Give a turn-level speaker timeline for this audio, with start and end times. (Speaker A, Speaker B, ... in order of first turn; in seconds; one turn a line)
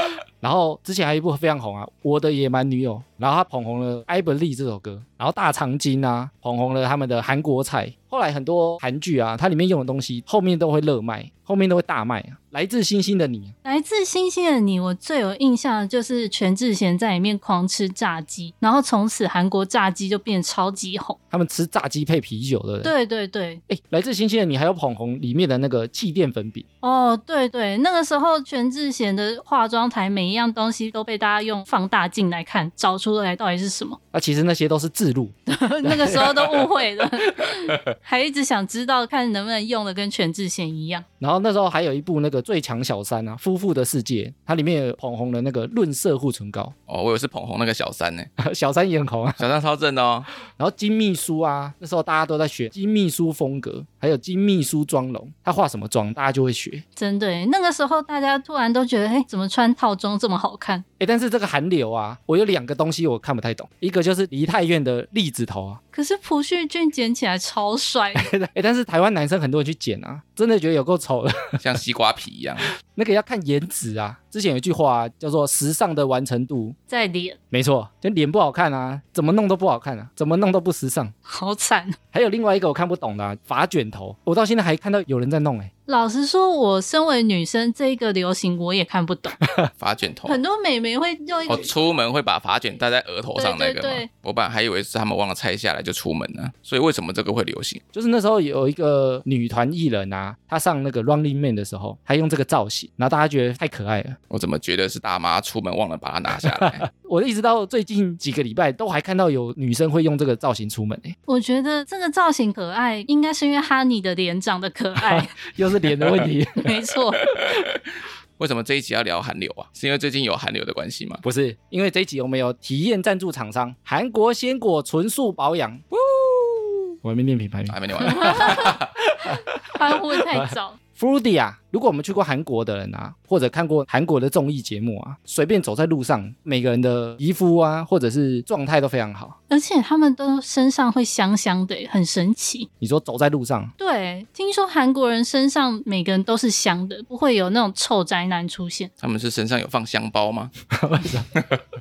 Speaker A: 0.4-13.6
Speaker B: 13.6-21.2
Speaker A: 21.3-22.9
Speaker B: 22.8-23.6
Speaker A: 23.7-26.6
Speaker B: 26.8-34.0
Speaker A: 34.1-36.6
Speaker B: 35.5-41.0
Speaker A: 41.2-46.7
Speaker C: 46.9-48.3
Speaker A: 48.4-49.4
Speaker C: 49.4-50.3
Speaker A: 50.6-56.8
Speaker B: 57.0-60.9
Speaker A: 61.0-65.8
Speaker B: 65.9-68.3
Speaker A: 68.2-71.6
Speaker C: 71.6-72.7
Speaker A: 72.9-76.8
Speaker B: 76.9-77.4
Speaker A: 77.5-81.1
Speaker B: 81.3-82.0
Speaker A: 82.1-85.7
Speaker B: 85.9-89.4
Speaker A: 89.4-89.7
Speaker C: 89.8-90.4
Speaker B: 90.3-91.7
Speaker C: 91.5-97.8
Speaker B: 93.4-94.1
Speaker A: 97.9-104.2
Speaker C: 104.3-106.8
Speaker A: 106.4-111.2
Speaker B: 111.3-115.3
Speaker A: 115.0-116.8
Speaker B: 116.6-117.3
Speaker C: 117.3-117.8
Speaker C: 118.4-121.2
Speaker A: 121.2-125.8
Speaker C: 125.9-126.8
Speaker A: 127.0-139.4
Speaker C: 127.7-128.9
Speaker B: 128.1-128.8
Speaker B: 129.7-130.8
Speaker B: 139.5-142.7
Speaker A: 142.8-143.7
Speaker B: 143.8-148.9
Speaker C: 149.0-150.5
Speaker A: 150.7-151.3
Speaker C: 151.3-151.6